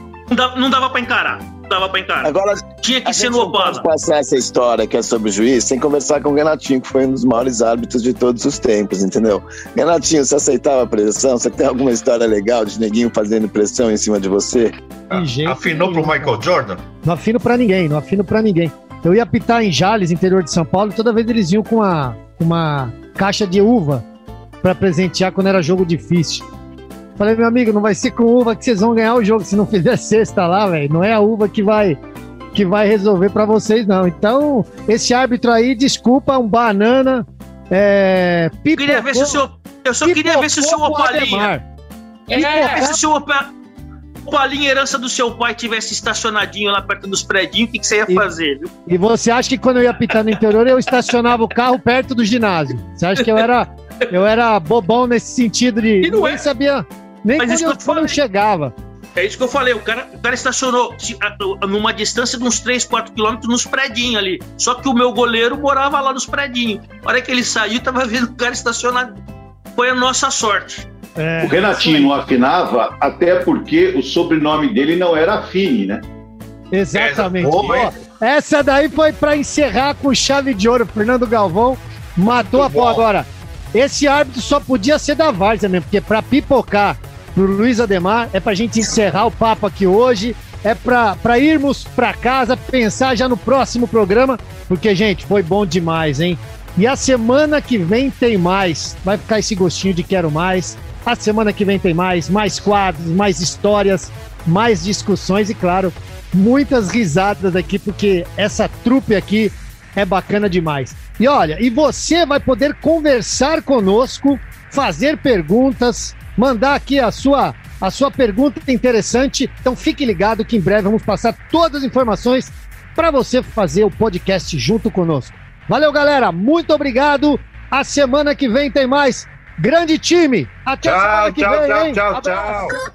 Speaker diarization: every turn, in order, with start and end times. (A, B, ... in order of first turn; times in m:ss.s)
0:00.3-0:03.9 A
0:02.2-0:14.7 B
0:15.1-0:16.8 C
0:15.1-0:16.3 D
0:17.0-0:24.0 D
0:24.6-0:26.5 D
0:27.2-0:32.0 D
0:32.5-0:39.4 D
0:38.8-0:41.5 A
0:40.0-0:41.6 D
0:42.3-0:43.5 A
0:42.3-0:43.0 D
0:44.3-0:48.7 A
0:48.9-0:58.7 D
0:53.2-0:53.4 A
0:56.0-0:56.4 A
0:57.4-0:58.2 A
0:59.2-1:09.2 A
1:09.8-1:10.9 A
1:11.2-1:12.1 D
1:11.4-1:16.0 E
1:16.7-2:12.6 D
1:16.9-1:17.9 C
1:22.4-1:23.0 C
2:10.8-2:12.8 C